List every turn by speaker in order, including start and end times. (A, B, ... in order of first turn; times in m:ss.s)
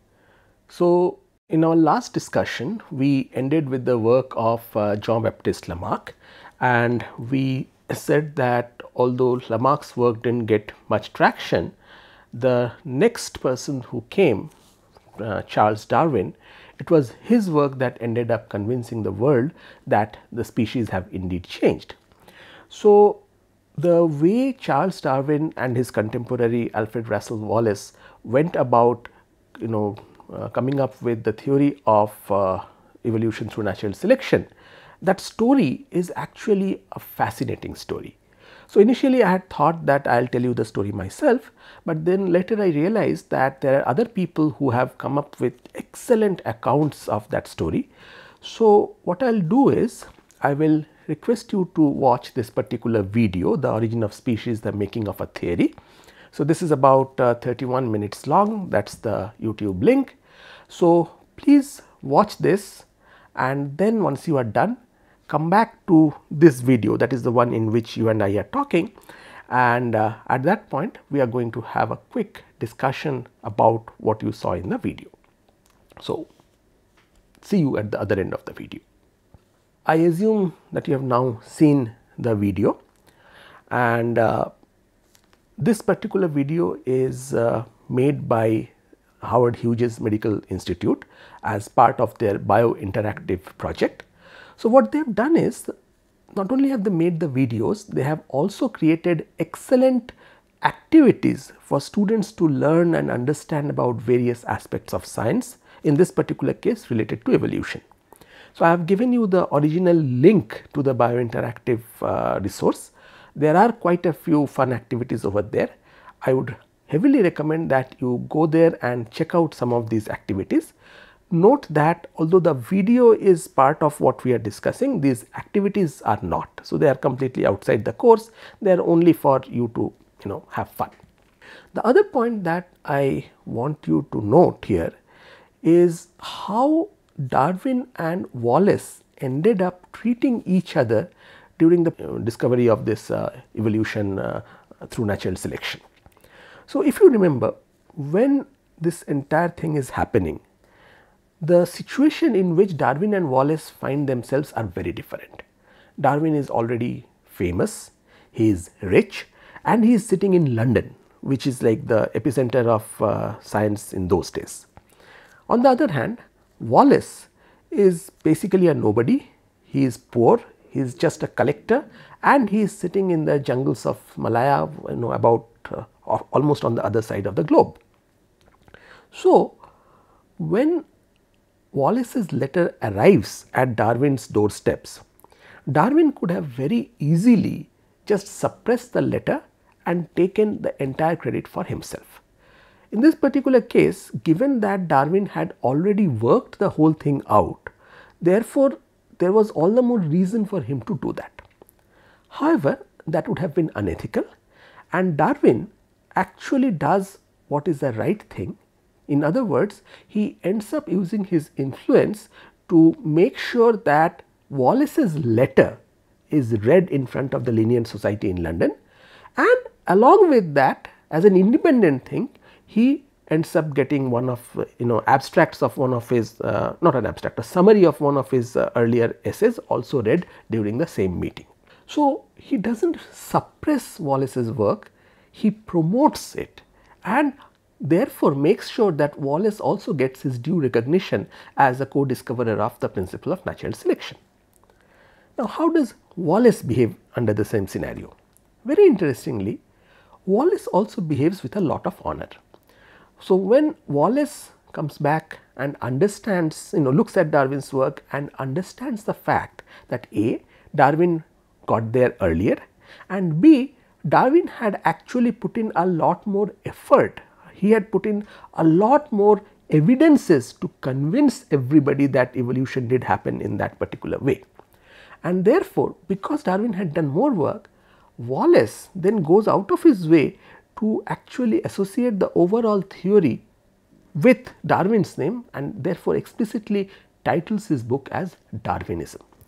0:00.7-0:11.7 A
0:12.3-0:14.5 A
0:15.2-0:22.0 A
0:22.7-0:23.2 A
0:23.8-0:34.5 A
0:35.0-0:38.2 A
0:38.7-0:47.9 A
0:48.4-0:55.7 A
0:56.3-1:00.2 A
1:00.7-1:08.9 A
1:09.5-1:15.1 A
1:16.0-1:16.3 A
1:17.4-1:18.8 A
1:19.8-1:22.8 A
1:23.7-1:24.5 A
1:25.6-1:34.1 A
1:34.6-1:35.7 A
1:36.3-1:47.8 A
1:48.5-2:00.7 A
2:01.3-2:11.0 A
2:11.7-2:15.0 A
2:15.6-2:25.8 A
2:26.7-2:30.4 A
2:31.4-2:35.4 A
2:36.0-2:44.7 A
2:45.5-2:57.8 A
2:59.1-2:59.6 A
3:00.4-3:00.8 A
3:01.7-3:05.0 A
3:05.7-3:12.2 A
3:12.9-3:21.4 A
3:22.3-3:24.3 A
3:24.9-3:35.8 A
3:36.3-3:38.7 A
3:39.4-4:04.2 A
4:05.4-4:09.6 A
4:10.3-4:12.4 A
4:13.2-4:34.4 A
4:35.2-4:43.4 A
4:44.2-4:49.2 A